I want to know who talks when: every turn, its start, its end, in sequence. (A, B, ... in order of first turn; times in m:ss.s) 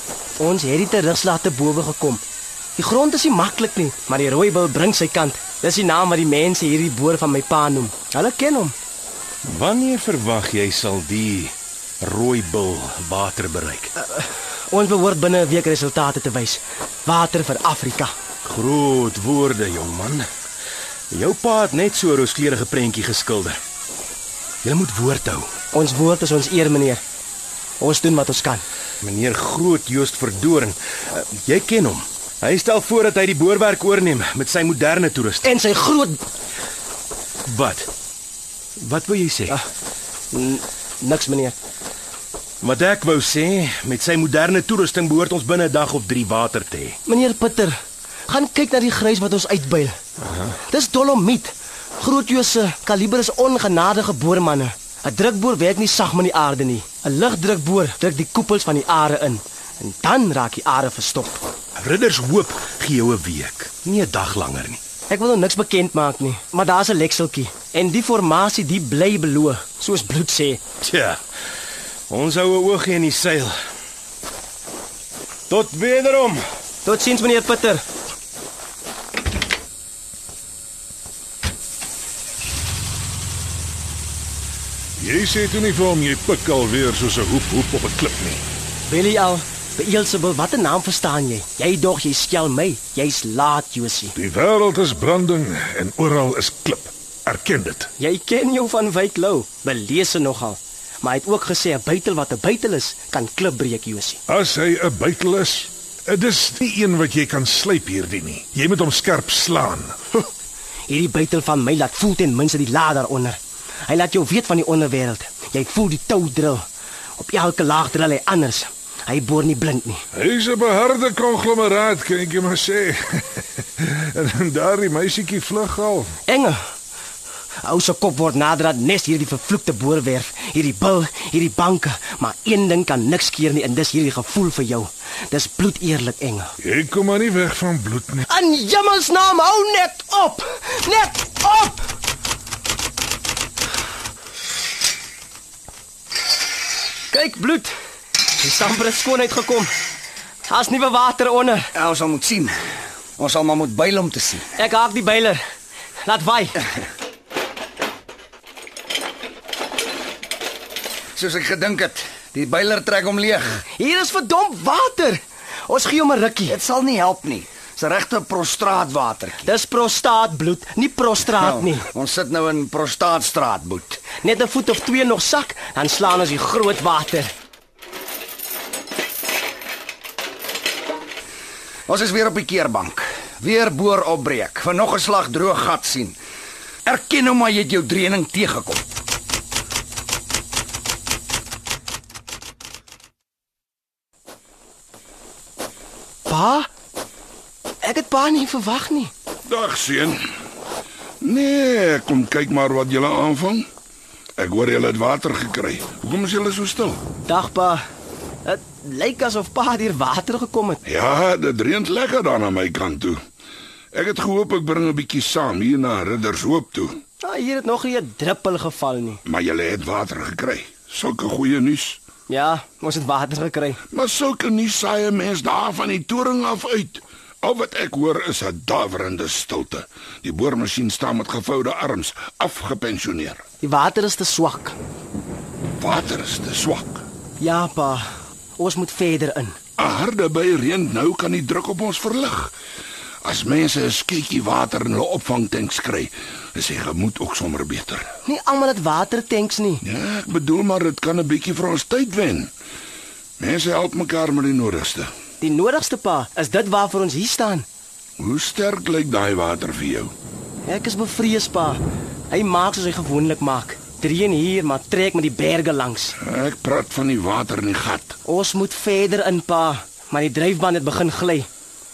0:00.4-0:02.2 A
0:02.8-0:08.7 A
0:09.4-0:13.9 B
0:14.0-0:18.1 A
0:18.4-0:20.3 B
0:21.1-0:23.6 B
0:24.6-0:25.5 B
0:25.7-0:27.0 A
0:27.8-0:28.6 A
0:29.0-0:35.5 B
0:35.4-0:36.2 A
0:37.5-0:37.9 B
0:38.8-0:39.6 B
0:40.3-0:41.6 A
0:42.6-0:47.0 B
0:47.0-0:47.8 A
0:48.3-0:50.0 A
0:50.2-0:50.5 B
0:50.6-1:01.4 A
1:01.8-1:04.8 B
1:05.1-1:10.6 A
1:10.8-1:11.2 B
1:12.1-1:13.6 B
1:15.5-1:16.4 B
1:16.8-1:17.8 A
1:25.0-1:28.4 C
1:28.9-1:34.2 A
1:34.2-1:37.9 C
1:38.0-1:44.2 A
1:44.3-1:49.9 C
1:50.9-1:56.6 A
1:57.2-2:00.0 A
2:00.1-2:06.1 C
2:06.3-2:06.6 A
2:07.6-2:16.5 A
2:16.6-2:18.2 C
2:18.2-2:21.9 A
2:27.1-2:27.7 A
2:28.3-2:29.7 A
2:30.5-2:31.7 A
2:31.7-2:32.5 D
2:33.2-2:34.4 D
2:34.6-2:35.4 A
2:36.0-2:36.6 A
2:41.2-2:43.6 D
2:43.7-2:46.6 A
2:46.5-2:49.5 D
2:49.4-2:51.8 A
2:51.4-2:54.1 D
2:54.2-2:57.3 A
3:01.9-3:06.2 D
3:06.8-3:08.8 D
3:16.3-3:16.7 A
3:17.8-3:19.1 A
3:19.5-3:20.2 E
3:21.2-3:23.7 E
3:24.4-3:27.0 E
3:27.3-3:27.8 A
3:28.4-3:30.8 A
3:30.8-3:33.2 E
3:33.9-3:37.0 E
3:37.2-3:39.2 A
3:39.2-3:42.0 E
3:42.3-3:43.8 A
3:43.9-3:53.4 E
3:53.6-3:54.8 A
3:55.8-3:57.0 E
3:57.4-3:59.6 A
3:59.8-4:02.5 E
4:03.2-4:08.1 E
4:08.2-4:09.8 A
4:09.8-4:12.5 E
4:13.4-4:15.1 E
4:15.4-4:17.6 A
4:18.2-4:20.1 E
4:20.6-4:26.2 A
4:26.2-4:28.2 E
4:28.2-4:31.5 A